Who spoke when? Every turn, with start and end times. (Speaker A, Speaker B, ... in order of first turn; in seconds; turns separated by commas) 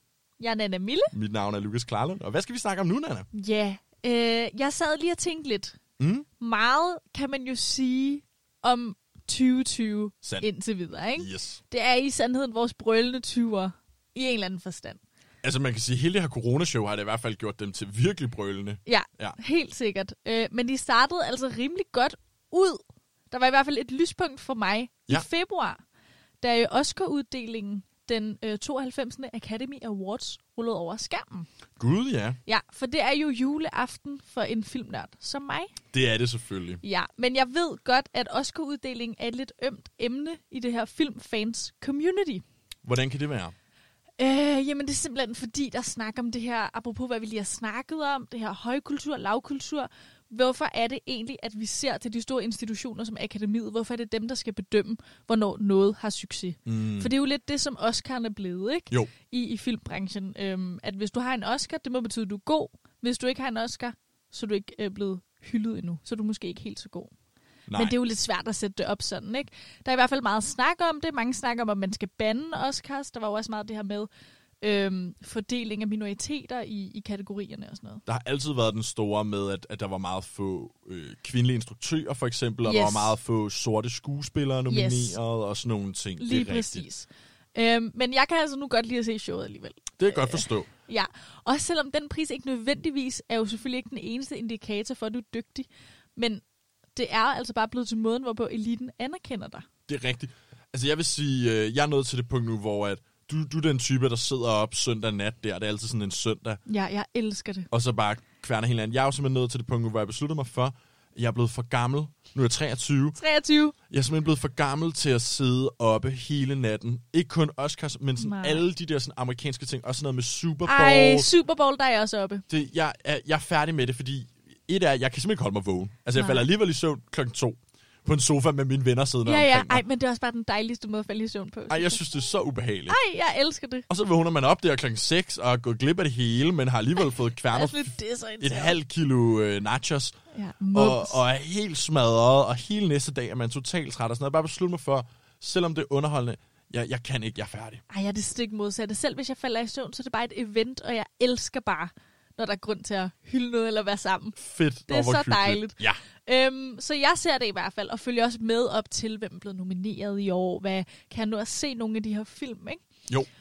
Speaker A: 0.4-1.1, Speaker B: 1.1-3.3, Speaker A: 3.3-5.8, Speaker B: 6.0-6.3, Speaker A: 6.4-15.0, Speaker B: 11.2-11.6, Speaker B: 15.4-19.4, Speaker A: 18.9-25.8, Speaker A: 26.4-31.5, Speaker B: 31.8-32.4, Speaker A: 32.5-35.7, Speaker B: 35.9-36.8, Speaker A: 36.8-42.4, Speaker B: 42.8-43.5, Speaker A: 44.2-67.1, Speaker B: 56.7-57.1, Speaker B: 67.7-68.0, Speaker A: 67.7-74.1, Speaker A: 74.6-78.0, Speaker B: 78.1-86.9, Speaker A: 82.6-83.2, Speaker A: 84.7-85.2, Speaker A: 86.2-96.4, Speaker B: 90.0-90.7, Speaker A: 97.0-99.7, Speaker B: 99.9-106.6, Speaker A: 106.7-107.7, Speaker B: 107.7-113.2, Speaker A: 113.2-113.8, Speaker B: 113.9-121.3, Speaker A: 118.2-118.7, Speaker A: 120.7-122.4, Speaker B: 122.5-129.8, Speaker A: 126.2-126.5, Speaker A: 129.2-132.0, Speaker B: 131.7-133.0, Speaker A: 132.9-133.9, Speaker B: 133.9-140.2, Speaker A: 137.5-138.8, Speaker A: 140.3-141.2, Speaker B: 140.7-147.8, Speaker A: 147.9-154.4, Speaker B: 154.4-156.0, Speaker A: 154.9-162.8